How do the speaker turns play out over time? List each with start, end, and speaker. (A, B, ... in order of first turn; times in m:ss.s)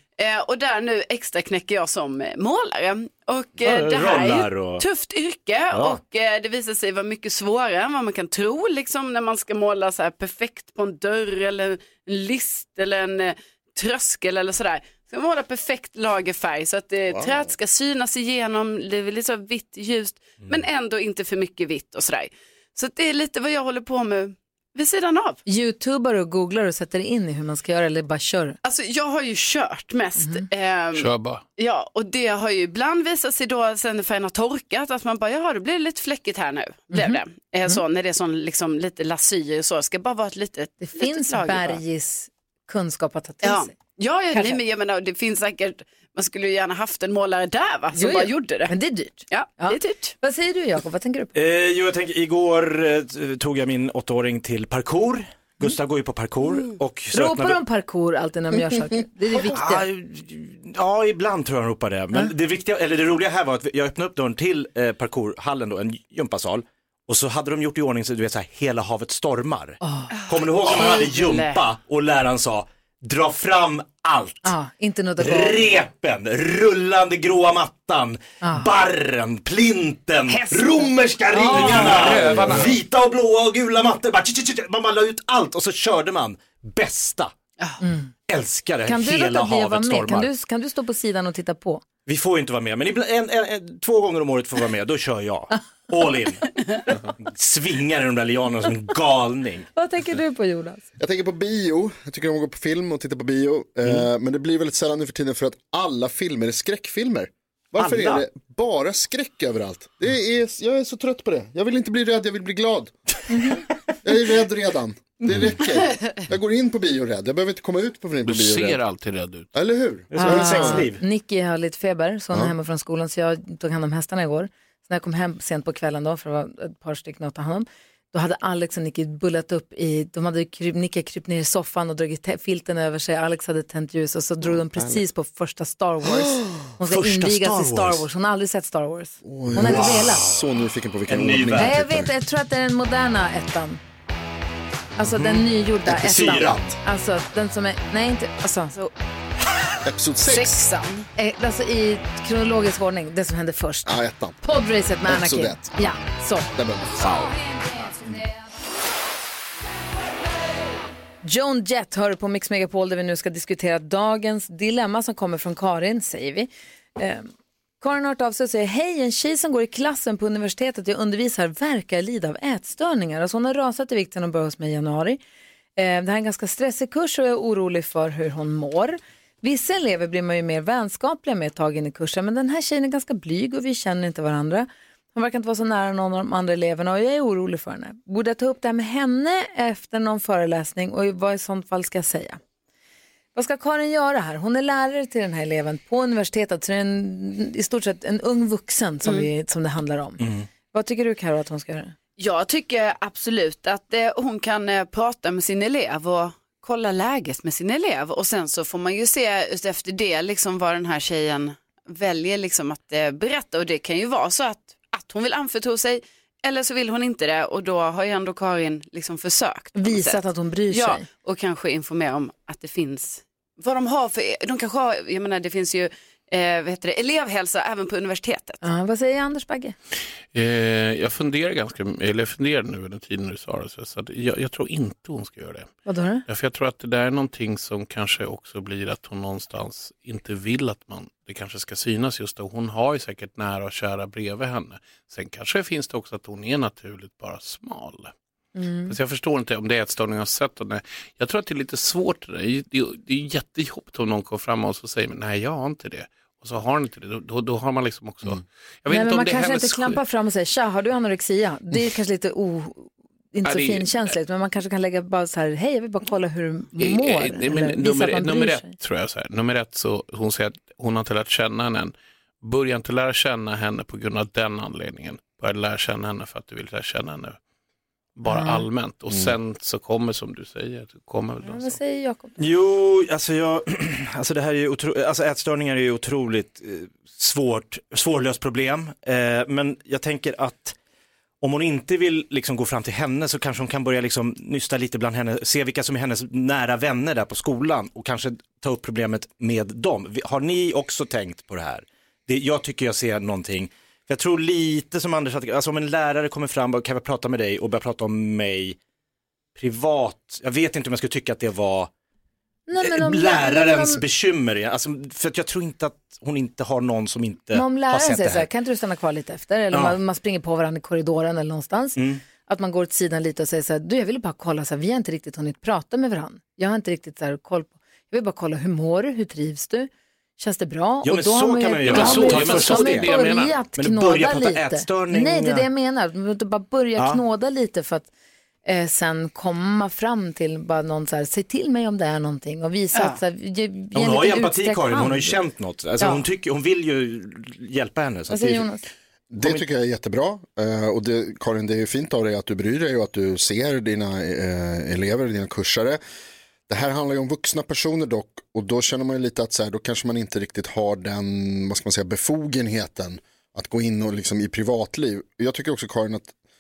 0:00.2-0:25.4 A
0:03.6-0:04.8 B
0:05.7-0:06.0 B
0:17.1-0:17.4 C
0:25.5-0:28.6 D
0:28.6-0:41.8 A
0:30.2-0:30.4 D
0:30.9-0:31.4 E
0:36.9-0:37.8 D
0:40.8-0:43.8 D
0:43.4-0:48.7 A
0:44.3-0:44.6 D
0:47.9-0:51.4 D
0:49.3-0:50.2 A
0:51.3-0:57.6 B
0:57.1-0:59.8 D
0:59.3-1:14.5 B
1:09.8-1:10.1 D
1:10.2-1:11.6 A
1:14.4-1:15.8 D
1:15.2-1:27.3 B
1:20.4-1:20.8 A
1:21.3-1:21.8 D
1:21.4-1:22.8 E
1:21.9-1:22.7 C
1:27.8-1:28.1 D
1:28.3-1:30.3 B
1:28.9-1:31.8 D
1:32.1-1:39.7 B
1:39.8-1:40.9 D
1:41.0-1:52.9 C
1:47.8-1:48.2 B
1:53.3-1:53.6 D
1:54.0-1:58.8 C
1:58.2-1:59.5 E
1:59.6-2:00.9 C
2:00.1-2:01.0 B
2:00.1-2:20.3 D
2:14.5-2:15.0 C
2:16.9-2:18.0 B
2:19.2-2:22.1 C
2:19.6-2:20.4 B
2:21.1-2:21.8 B
2:21.5-2:23.8 D
2:25.0-2:28.8 D
2:25.0-2:26.7 B
2:29.8-2:30.6 C
2:30.2-2:31.1 A
2:31.2-2:36.5 D
2:33.9-2:34.4 C
2:35.0-2:35.9 C
2:36.5-2:37.4 C
2:41.2-2:47.3 D
2:47.8-2:55.2 D
2:55.8-3:12.4 D
3:13.4-3:22.0 D
3:19.0-3:19.3 A
3:20.2-3:20.5 B
3:22.2-3:48.6 A
3:39.8-3:41.0 D
3:48.6-3:49.8 D
3:50.3-3:55.7 E
3:55.8-3:56.2 D
3:56.3-4:08.1 E
4:08.6-4:09.0 D
4:08.9-4:20.0 E
4:18.9-4:28.8 D
4:23.4-4:24.1 E
4:26.8-4:37.4 E
4:38.2-4:41.8 E
4:38.3-4:38.7 D
4:41.4-4:42.4 D
4:42.4-4:50.8 B
4:51.4-5:08.8 B
5:09.6-5:11.9 B
5:12.7-5:14.0 D
5:12.8-5:18.5 B
5:17.5-5:38.1 D
5:19.7-5:20.0 B
5:22.0-5:22.2 B
5:31.0-5:35.7 B
5:31.8-5:33.6 E
5:38.6-5:45.4 D
5:43.9-5:48.7 B
5:48.3-5:48.8 D
5:49.3-5:56.0 C
5:56.7-6:06.3 C